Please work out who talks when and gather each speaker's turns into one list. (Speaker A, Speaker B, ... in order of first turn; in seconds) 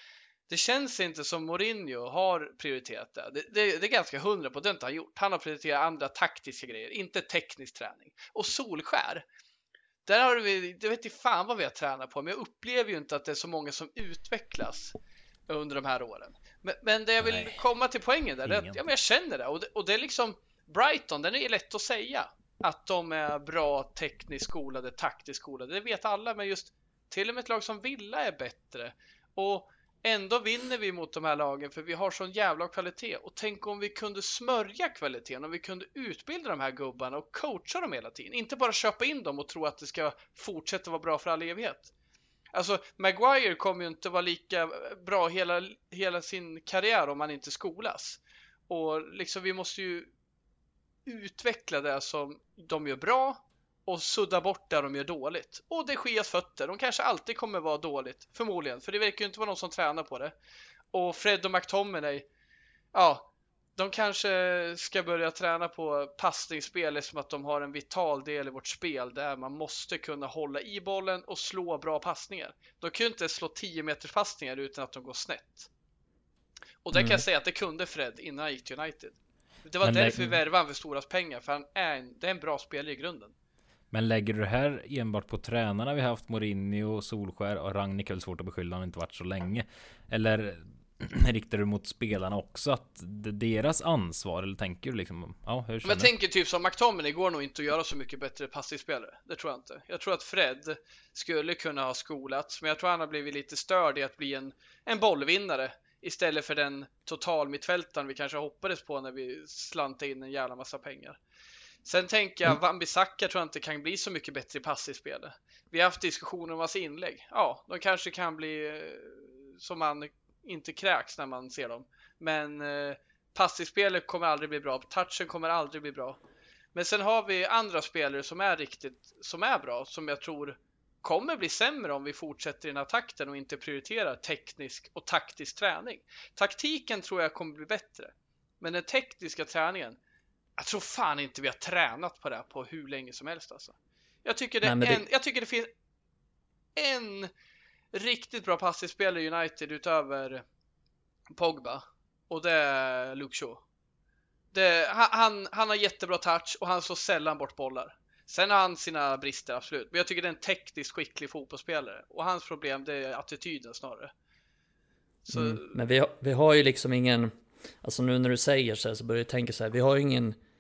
Speaker A: 0.5-9.2, 10.1-14.9, 15.5-41.9, 42.5-50.1, 51.1-60.3, 60.9-62.3, 62.9-75.7, 76.8-83.3, 95.8-111.2, 111.8-126.2, 126.7-140.0, 140.6-145.7, 146.8-147.3, 147.9-150.4, 151.3-153.6, 154.5-164.1, 165.2-165.8
Speaker B: 17.2-17.6, 18.4-18.8, 79.8-80.3, 83.9-96.1
Speaker C: 77.0-77.2, 144.6-145.0, 165.3-167.3, 167.8-170.4